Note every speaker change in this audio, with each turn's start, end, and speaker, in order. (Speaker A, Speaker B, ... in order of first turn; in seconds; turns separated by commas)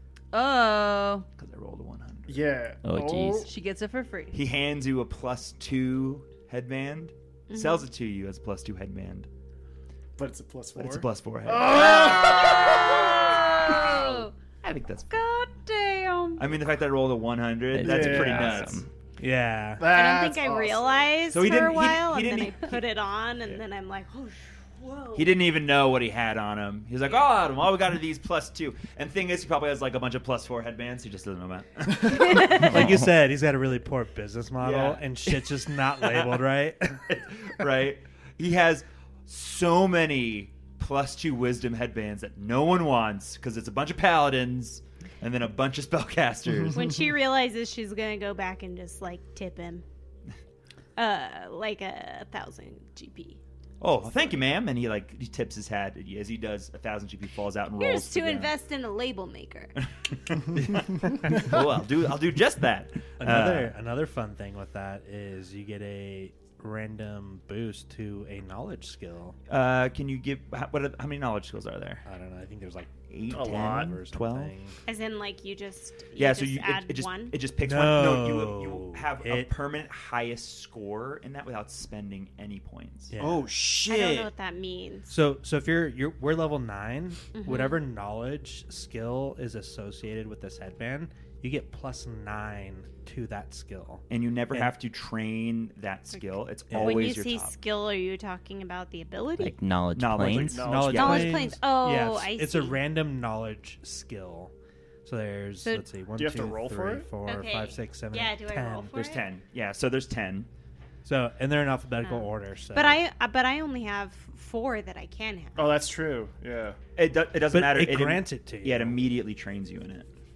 Speaker A: 0.3-1.3, Speaker B: 1.4-2.5, Speaker C: 2.3-3.5, Speaker D: 2.8-3.5, Speaker A: 3.4-4.4, Speaker B: 4.3-9.3, Speaker E: 7.5-7.8, Speaker C: 10.2-13.1, Speaker B: 10.8-14.0, Speaker E: 11.8-14.3, Speaker B: 14.6-15.2, Speaker E: 15.1-16.5, Speaker B: 16.4-18.8, Speaker D: 17.7-18.9, Speaker C: 17.8-18.8, Speaker F: 19.2-19.9, Speaker C: 19.8-21.2, Speaker E: 19.9-25.4, Speaker B: 21.3-22.8, Speaker B: 25.1-33.1, Speaker E: 32.1-32.6, Speaker F: 32.3-37.0, Speaker B: 34.6-36.4, Speaker B: 37.1-46.9, Speaker E: 46.7-49.9, Speaker E: 51.0-53.4, Speaker B: 53.8-58.5, Speaker E: 57.7-59.8, Speaker B: 59.8-63.7, Speaker F: 63.2-69.4, Speaker B: 69.5-72.0, Speaker F: 72.0-74.8, Speaker B: 73.1-74.5, Speaker C: 73.3-73.9, Speaker E: 74.9-77.3, Speaker B: 76.2-83.2, Speaker F: 77.6-79.5, Speaker F: 83.1-83.5, Speaker C: 83.2-84.3, Speaker E: 83.9-85.1, Speaker F: 85.1-94.7, Speaker E: 87.3-87.8, Speaker B: 94.1-97.5, Speaker F: 96.7-97.1, Speaker E: 96.8-99.5, Speaker D: 99.4-100.7, Speaker B: 99.9-101.4, Speaker C: 100.3-101.3, Speaker F: 100.6-104.5, Speaker E: 100.9-102.8, Speaker F: 105.0-109.0, Speaker C: 106.2-107.1, Speaker E: 107.2-109.2, Speaker B: 108.9-110.5, Speaker F: 111.0-113.0, Speaker E: 112.0-115.7, Speaker C: 115.6-116.8, Speaker B: 117.0-120.1, Speaker F: 117.5-119.0